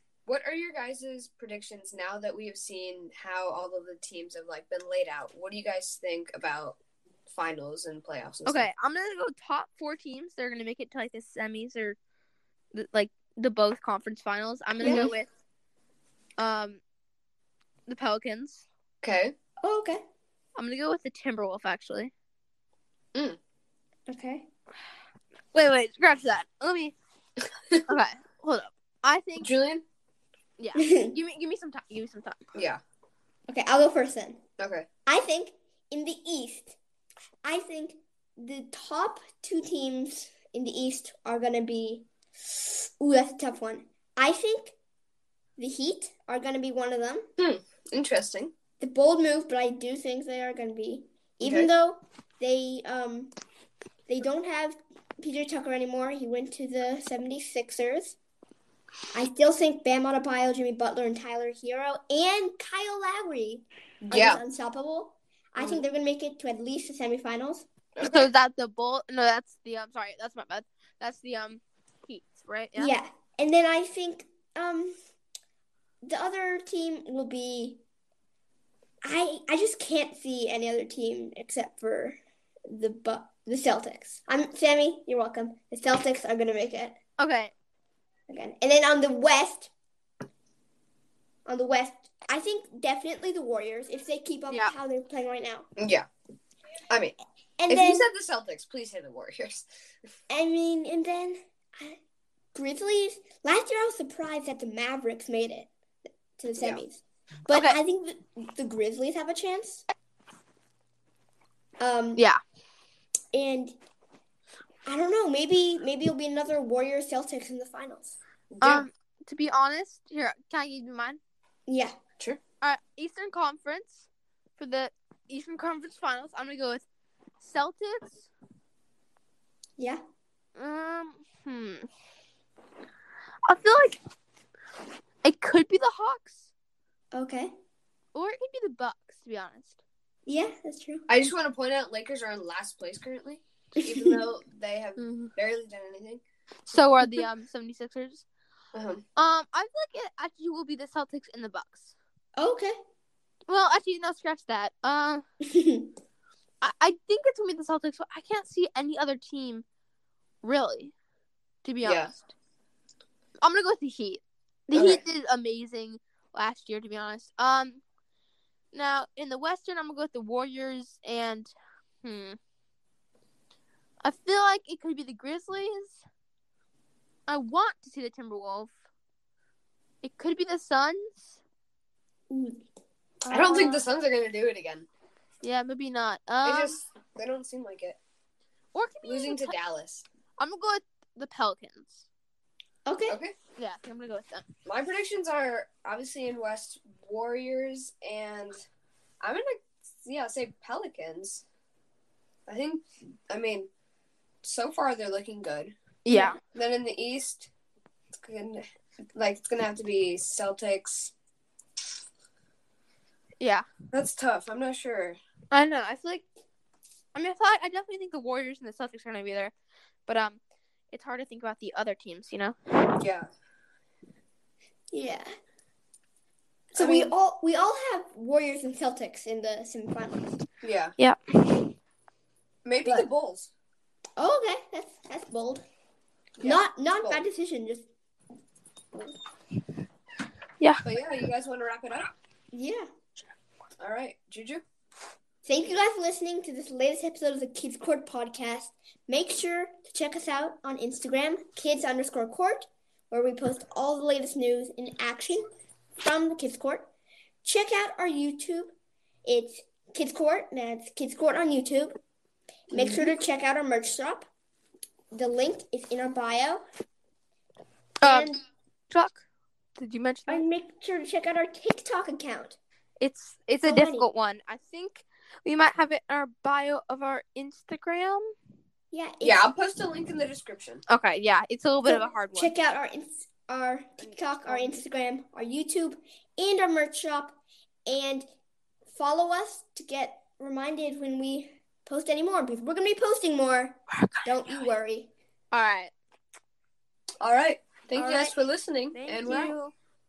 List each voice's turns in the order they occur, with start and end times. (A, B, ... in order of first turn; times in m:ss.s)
0:00.3-0:08.7 A
0:08.5-0:12.0 B
0:12.7-0:15.3 B
0:14.8-0:15.1 C
0:16.4-0:16.8 B
0:17.9-0:18.6 B
0:19.0-0:19.3 A
0:19.6-0:20.0 C
0:20.6-0:22.1 B
0:24.1-0:24.5 C
0:25.5-0:27.0 B
0:27.8-0:29.5 B
0:29.4-0:29.8 A
0:30.6-0:32.4 B
0:30.8-0:31.1 C
0:32.5-0:32.8 A
0:33.5-0:34.4 C
0:34.6-0:34.9 A
0:35.1-0:36.8 C
0:37.4-0:44.8 C
0:45.6-0:47.3 C
0:47.4-0:48.5 A
0:48.8-0:53.3 C
0:51.4-0:51.7 A
0:54.1-0:58.2 C
0:59.1-1:07.7 C
1:04.1-1:04.4 A
1:05.6-1:05.8 A
1:08.0-1:08.3 A
1:08.0-1:13.0 B
1:12.8-1:14.9 C
1:16.0-1:17.8 C
1:19.0-1:27.0 C
1:27.2-1:27.5 B
1:28.3-1:29.7 C
1:31.5-1:35.7 C
1:35.8-1:36.1 A
1:36.9-1:37.2 A
1:37.6-1:38.1 C
1:37.7-1:39.7 A
1:40.3-1:42.0 C
1:42.5-1:45.7 C
1:46.4-1:49.8 C
1:46.6-1:46.8 A
1:47.5-1:47.8 B
1:51.8-1:52.2 C
1:53.3-1:53.8 C
1:54.9-1:58.2 C
1:58.5-1:58.9 A
1:58.6-2:01.2 B
2:01.7-2:02.0 C
2:02.6-2:06.9 B
2:07.4-2:08.3 B
2:10.6-2:11.9 B
2:13.5-2:14.0 B
2:15.2-2:16.5 B
2:17.1-2:17.5 C
2:18.1-2:19.8 B
2:20.3-2:21.1 C
2:21.1-2:26.2 A
2:25.0-2:25.3 B
2:26.7-2:28.2 B
2:28.7-2:29.0 A
2:29.2-2:32.0 B
2:32.4-2:32.8 C
2:33.5-2:35.2 B
2:35.5-2:35.9 C
2:36.6-2:39.6 B
2:40.4-2:40.9 B
2:41.6-2:42.3 B
2:41.8-2:42.1 A
2:43.4-2:47.8 B
2:44.7-2:45.0 A
2:48.7-2:51.5 B
2:52.0-2:52.4 B
2:54.0-2:56.0 B
2:57.3-2:58.8 B
3:00.0-3:01.4 B
3:02.3-3:02.6 C
3:03.2-3:03.8 B
3:03.3-3:04.9 A
3:05.4-3:06.8 B
3:06.4-3:08.0 A
3:08.7-3:09.6 B
3:09.0-3:10.1 A
3:10.4-3:12.1 B
3:12.9-3:13.2 C
3:13.1-3:13.3 A
3:13.6-3:14.4 B
3:14.6-3:18.6 A
3:19.2-3:21.4 A
3:22.5-3:23.7 A
3:24.4-3:25.8 A
3:26.0-3:26.4 B
3:26.4-3:27.5 A
3:28.1-3:28.6 A
3:29.2-3:31.1 A
3:33.4-3:33.7 B
3:33.9-3:35.2 A
3:35.5-3:36.2 B
3:37.2-3:39.5 B
3:40.1-3:40.4 B
3:40.9-3:43.0 B
3:43.0-3:43.3 A
3:44.9-3:45.3 C
3:46.8-3:50.4 C
3:46.8-3:47.1 A
3:50.6-3:51.0 A
3:51.0-3:51.7 B
3:52.6-3:53.5 A
3:52.8-3:53.1 C
3:54.2-3:55.6 C
3:56.4-3:57.2 A
3:56.4-3:57.9 C
4:00.8-4:02.1 A
4:02.5-4:02.9 C
4:03.8-4:04.6 A
4:05.5-4:15.5 C
4:16.0-4:16.9 C
4:17.4-4:18.7 C
4:19.2-4:22.0 C
4:22.7-4:24.3 C
4:22.8-4:23.1 A
4:25.1-4:26.6 C
4:28.0-4:28.4 B
4:28.0-4:28.4 C
4:28.9-4:29.2 B
4:29.8-4:30.4 B
4:30.3-4:32.6 C
4:33.0-4:38.3 B
4:33.6-4:34.1 C
4:38.9-4:39.5 C
4:39.2-4:40.8 A
4:40.9-4:42.5 B
4:41.9-4:48.3 C
4:44.4-4:44.8 B
4:48.9-4:55.1 C
4:53.9-4:54.3 B
4:55.5-4:55.9 B
4:57.2-4:59.6 A
4:58.0-4:58.4 B
4:58.9-4:59.7 B